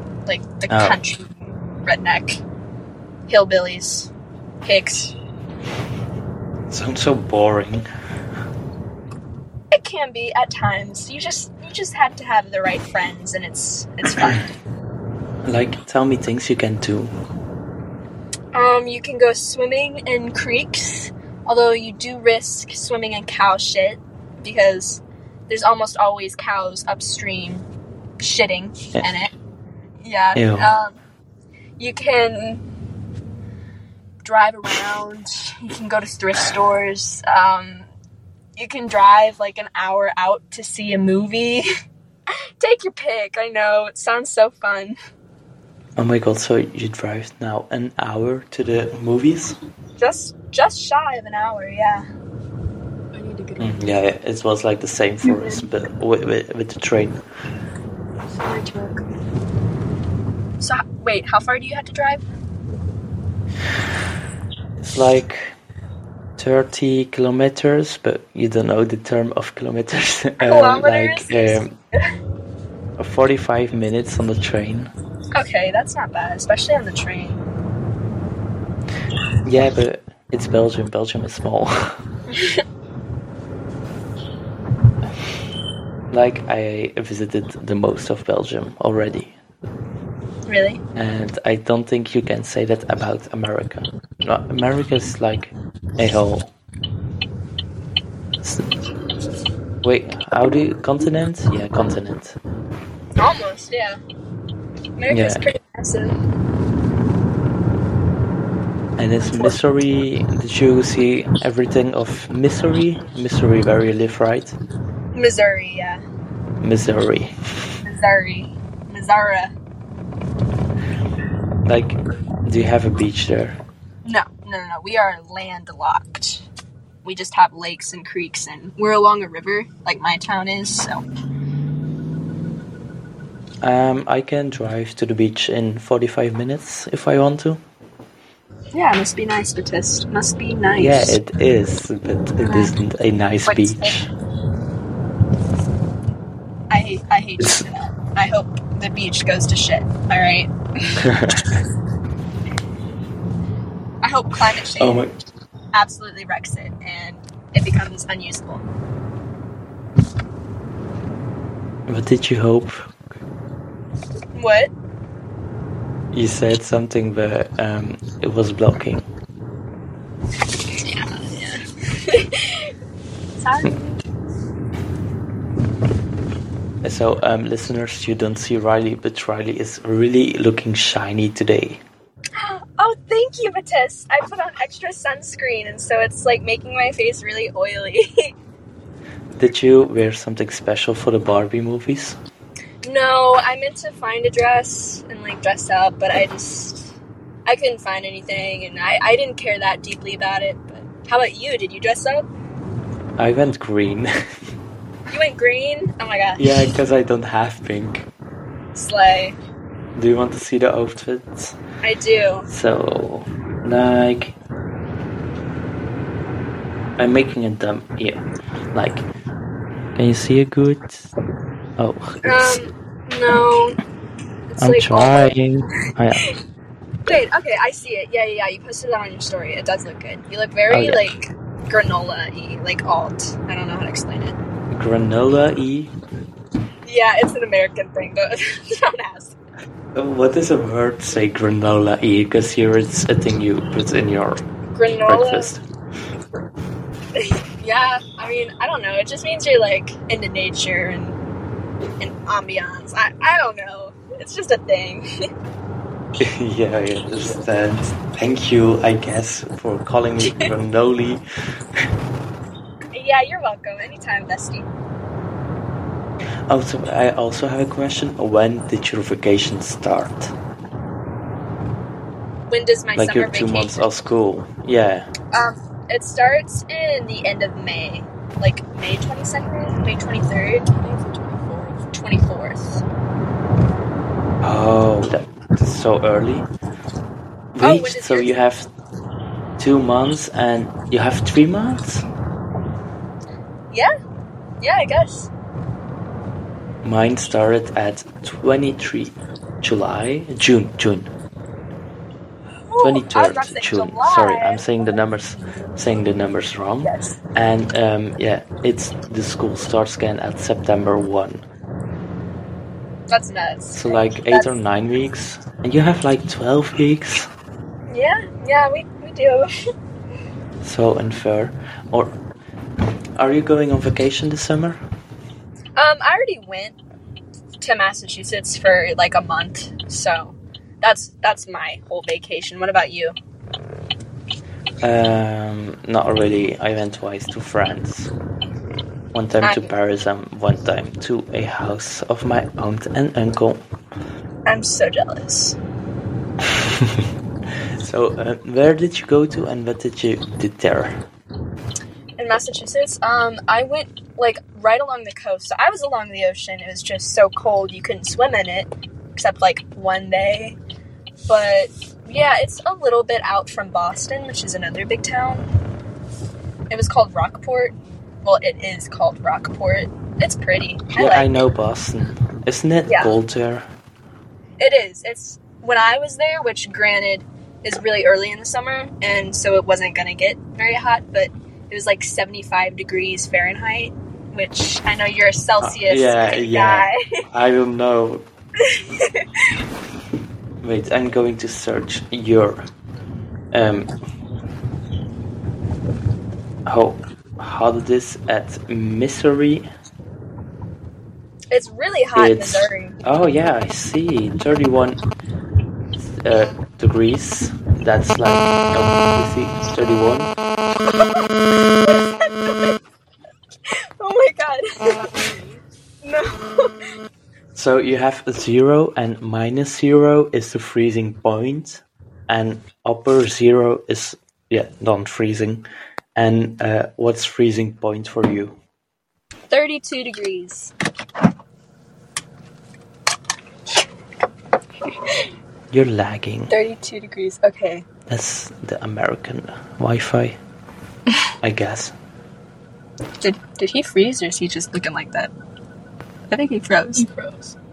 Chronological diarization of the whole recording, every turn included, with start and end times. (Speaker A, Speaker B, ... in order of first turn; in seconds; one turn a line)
Speaker A: 0.3-2.4
Speaker B: 0.7-1.0
Speaker A: 3.3-4.1
Speaker A: 4.6-5.1
Speaker B: 6.7-7.9
Speaker A: 9.7-14.5
Speaker B: 15.4-17.1
Speaker A: 18.5-27.7
Speaker A: 28.2-29.3
Speaker A: 30.0-31.0
Speaker B: 30.4-30.7
Speaker A: 31.8-32.6
Speaker A: 34.2-37.9
Speaker A: 38.6-41.7
Speaker A: 42.6-45.0
Speaker B: 46.0-49.6
Speaker A: 50.0-52.1
Speaker C: 53.1-53.9
Speaker B: 53.6-57.2
Speaker C: 55.2-55.7
Speaker C: 58.3-59.0
Speaker A: 60.6-62.2
Speaker B: 64.8-65.5
Speaker B: 66.4-71.8
Speaker A: 70.4-72.0
Speaker B: 73.0-74.9
Speaker A: 75.3-77.4
Speaker B: 79.4-82.0
Speaker A: 82.3-82.6
Speaker B: 86.1-89.4
Speaker A: 90.5-90.8
Speaker B: 91.0-96.5
Speaker B: 98.4-98.7
Speaker B: 99.8-102.4
Speaker A: 103.2-104.0
Speaker A: 105.0-106.2
Speaker B: 105.1-105.4
Speaker B: 109.0-114.6
Speaker A: 109.2-109.6
Speaker A: 115.2-116.0
Speaker B: 116.6-117.4
Speaker A: 117.8-119.5
Speaker B: 121.7-123.6
Speaker A: 124.0-126.5
Speaker A: 127.0-131.0
Speaker B: 133.6-137.6
Speaker A: 138.7-141.2
Speaker B: 140.8-144.1
Speaker A: 142.4-142.7
Speaker A: 143.4-144.1
Speaker A: 146.7-151.4
Speaker B: 147.4-147.7
Speaker B: 151.0-151.6
Speaker A: 154.0-155.1
Speaker B: 154.6-155.1
Speaker A: 155.7-158.6
Speaker B: 161.9-162.9
Speaker A: 164.3-164.7
Speaker B: 166.1-169.1
Speaker A: 170.8-172.7
Speaker A: 173.4-173.9
Speaker B: 176.8-181.8
Speaker A: 182.4-188.3
Speaker B: 189.4-192.2
Speaker A: 192.8-196.9
Speaker A: 197.5-202.3
Speaker B: 203.2-204.1
Speaker A: 205.1-206.7
Speaker B: 206.4-208.1
Speaker A: 208.8-209.4
Speaker B: 210.0-211.6
Speaker A: 211.8-212.5
Speaker B: 212.5-214.4
Speaker B: 217.0-218.2
Speaker B: 218.7-219.1
Speaker B: 220.0-221.1
Speaker B: 221.8-222.6
Speaker A: 222.2-223.8
Speaker A: 224.5-225.3
Speaker B: 224.6-226.2
Speaker A: 227.1-234.4
Speaker B: 230.7-231.1
Speaker B: 234.7-235.9
Speaker A: 236.8-239.4
Speaker B: 239.9-244.4
Speaker A: 244.7-245.5
Speaker B: 245.1-245.6
Speaker A: 247.2-251.2
Speaker A: 252.0-255.1
Speaker B: 256.2-261.2
Speaker A: 262.9-264.7
Speaker B: 266.5-270.3
Speaker A: 272.5-273.9
Speaker B: 273.0-275.1
Speaker A: 275.3-280.7
Speaker C: 280.7-281.8
Speaker A: 281.9-282.8
Speaker B: 284.4-286.5
Speaker B: 287.6-288.7
Speaker A: 287.6-288.3
Speaker B: 289.6-292.1
Speaker A: 294.6-295.3
Speaker B: 296.8-301.1
Speaker A: 302.7-304.8
Speaker B: 302.8-311.4
Speaker A: 306.8-307.2
Speaker A: 313.1-314.5
Speaker B: 313.7-317.3
Speaker A: 317.9-319.5
Speaker B: 320.6-322.2
Speaker B: 323.2-324.8
Speaker A: 325.8-326.8
Speaker A: 327.6-333.2
Speaker B: 334.8-338.1
Speaker B: 339.1-343.6
Speaker A: 339.4-339.7
Speaker A: 344.5-345.6
Speaker B: 346.6-347.1
Speaker B: 347.8-351.0
Speaker A: 352.2-360.6
Speaker A: 361.3-365.5
Speaker A: 366.7-371.5
Speaker B: 370.9-373.6
Speaker A: 372.9-373.1
Speaker A: 374.6-387.2
Speaker B: 385.6-388.2
Speaker A: 388.6-389.3
Speaker B: 390.6-392.6
Speaker B: 393.5-393.9
Speaker B: 396.7-399.7
Speaker A: 401.5-403.0
Speaker B: 402.1-405.0
Speaker B: 406.0-410.3
Speaker A: 410.9-412.8
Speaker A: 413.7-415.2
Speaker A: 416.0-416.9
Speaker B: 417.6-425.6
Speaker B: 426.2-428.6
Speaker A: 429.5-430.7
Speaker B: 435.7-436.5
Speaker A: 436.5-437.9
Speaker B: 438.1-440.4
Speaker B: 441.4-441.9
Speaker A: 443.2-445.3
Speaker A: 446.3-447.1
Speaker C: 447.0-447.5